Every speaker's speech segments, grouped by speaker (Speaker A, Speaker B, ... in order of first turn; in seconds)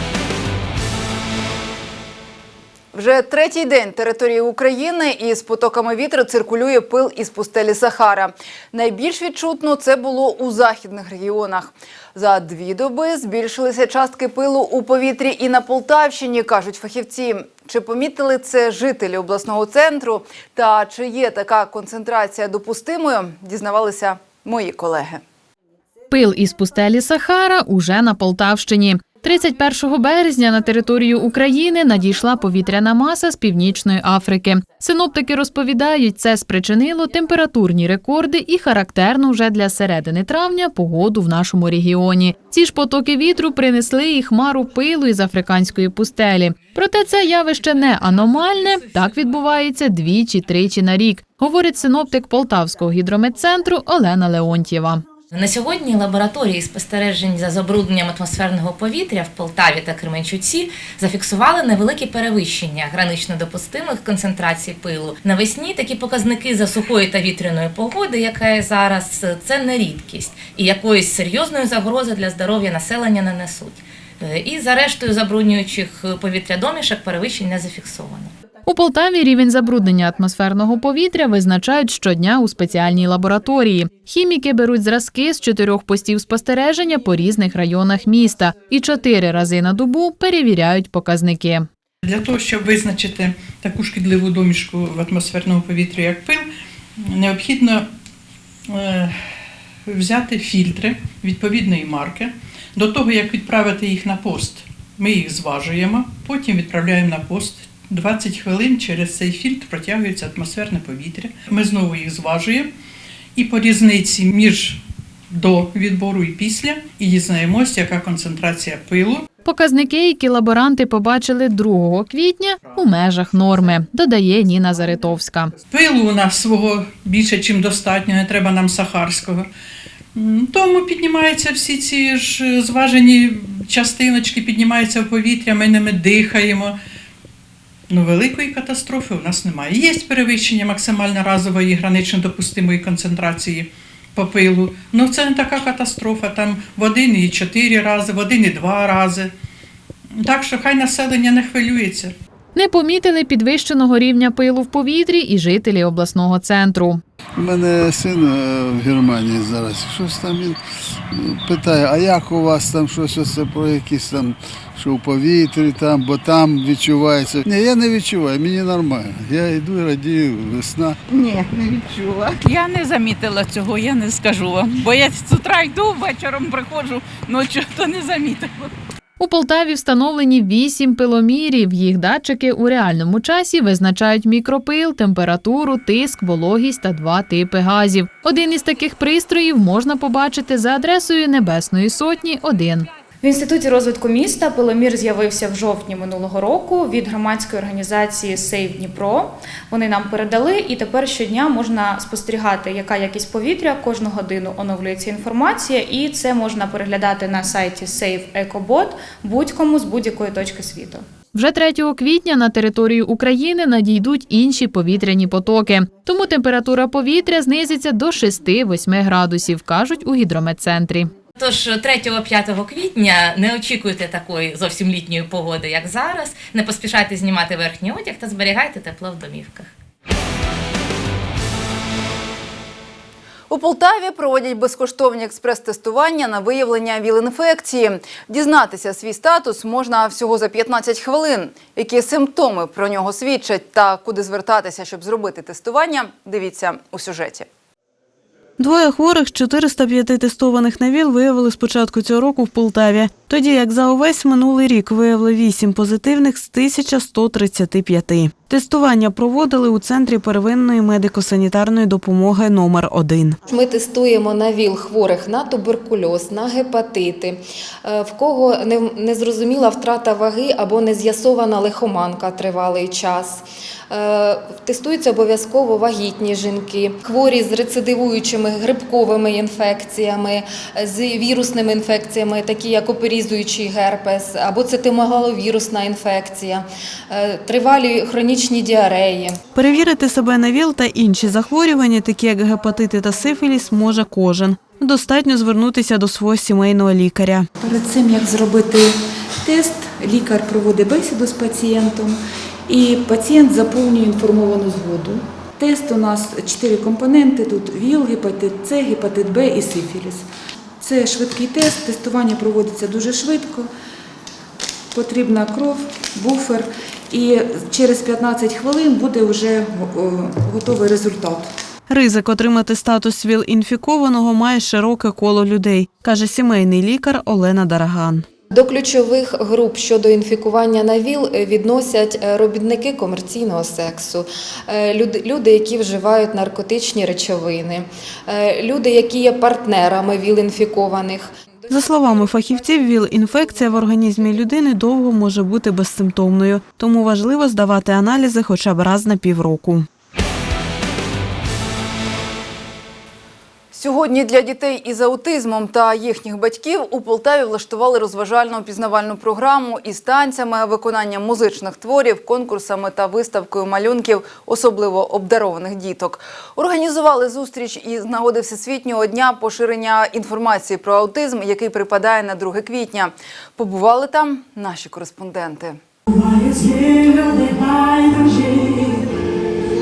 Speaker A: 2.9-25.2, 233.5-247.4, 353.7-375.8
Speaker B: 26.1-55.0, 78.6-91.7, 119.4-125.5, 152.6-157.0, 179.2-192.9, 211.3-221.1
Speaker C: 55.3-78.3, 221.4-229.7
Speaker D: 92.0-97.9, 98.7-99.2, 99.8-112.7, 113.3-114.8, 115.3-119.3, 125.7-129.5, 130.1-136.8, 137.9-149.3, 150.2-152.1
Speaker E: 157.4-158.3, 158.8-160.4, 161.6-164.1, 164.8-168.9, 169.8-170.8
Speaker F: 172.1-178.7
Speaker G: 193.2-211.1
Speaker H: 248.6-263.3, 289.6-297.4, 321.9-328.2, 341.7-349.8
Speaker I: 263.5-289.4, 328.5-341.3
Speaker J: 301.1-301.6, 305.8-307.7, 308.4-310.2, 310.8-312.0, 312.6-313.2